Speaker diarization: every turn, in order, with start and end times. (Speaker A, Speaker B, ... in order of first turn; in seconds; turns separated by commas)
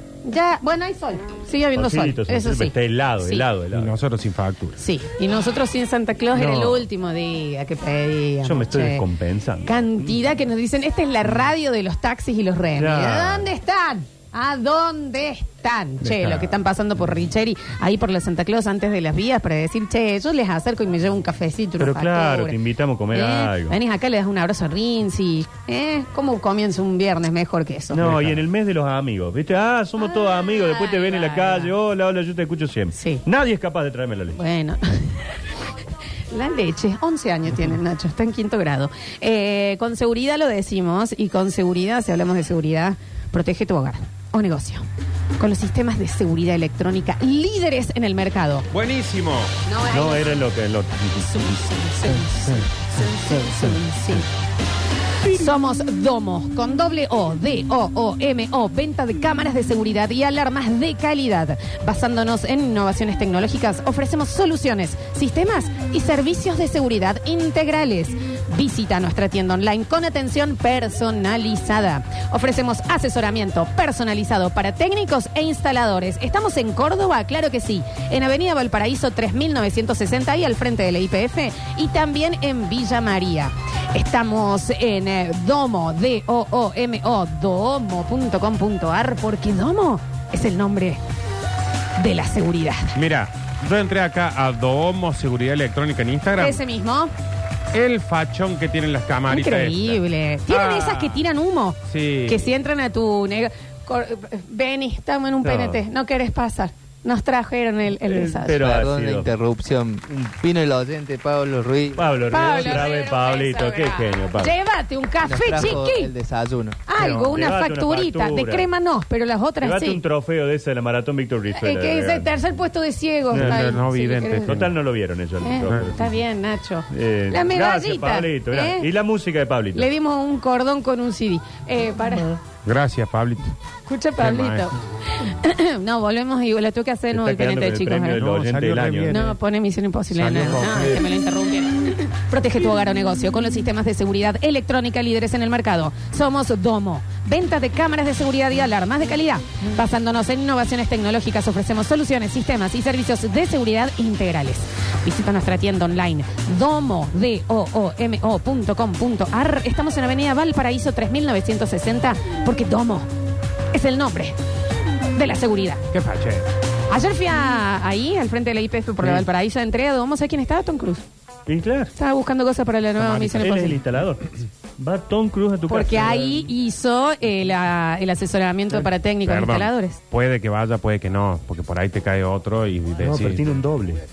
Speaker A: 0.2-3.5, Speaker B: 1.7-3.9, Speaker C: 3.7-4.8, Speaker A: 4.8-9.0, Speaker B: 6.3-6.8, Speaker B: 8.4-10.0, Speaker A: 9.7-22.6, Speaker B: 12.8-13.5, Speaker B: 16.0-16.5, Speaker B: 21.8-23.8, Speaker A: 23.1-28.1, Speaker B: 27.9-34.4, Speaker C: 28.0-28.4, Speaker A: 30.0-31.7, Speaker A: 32.9-33.2, Speaker A: 34.4-35.3, Speaker A: 36.3-44.9, Speaker A: 45.4-48.7, Speaker C: 48.7-49.5, Speaker A: 49.6-50.5, Speaker B: 49.9-51.5, Speaker A: 51.2-54.3, Speaker A: 55.3-91.0, Speaker A: 92.0-93.0, Speaker C: 92.9-96.6, Speaker A: 96.3-97.1, Speaker C: 97.7-101.2, Speaker A: 99.3-108.6, Speaker C: 101.9-102.4, Speaker B: 108.0-109.3, Speaker D: 108.6-112.1, Speaker B: 112.0-114.5, Speaker A: 112.3-116.1, Speaker D: 115.2-116.8, Speaker A: 116.9-120.0, Speaker C: 117.0-117.3, Speaker B: 117.1-118.7, Speaker B: 119.6-122.3, Speaker A: 121.5-124.6, Speaker B: 123.3-123.8, Speaker C: 123.3-124.7, Speaker B: 124.4-126.1, Speaker A: 125.4-128.9, Speaker B: 126.9-129.9, Speaker A: 129.7-132.4, Speaker C: 132.6-133.5, Speaker A: 133.8-138.3, Speaker C: 134.2-134.7, Speaker B: 137.1-139.2, Speaker C: 138.2-139.4, Speaker A: 139.1-163.1, Speaker C: 140.1-141.1, Speaker A: 163.7-164.4, Speaker A: 165.1-165.8, Speaker C: 165.9-166.4, Speaker A: 166.9-171.0, Speaker B: 171.5-171.9, Speaker A: 171.9-173.8, Speaker C: 173.0-173.6, Speaker B: 173.4-176.5, Speaker A: 175.7-180.0, Speaker C: 179.2-183.6, Speaker B: 183.0-184.0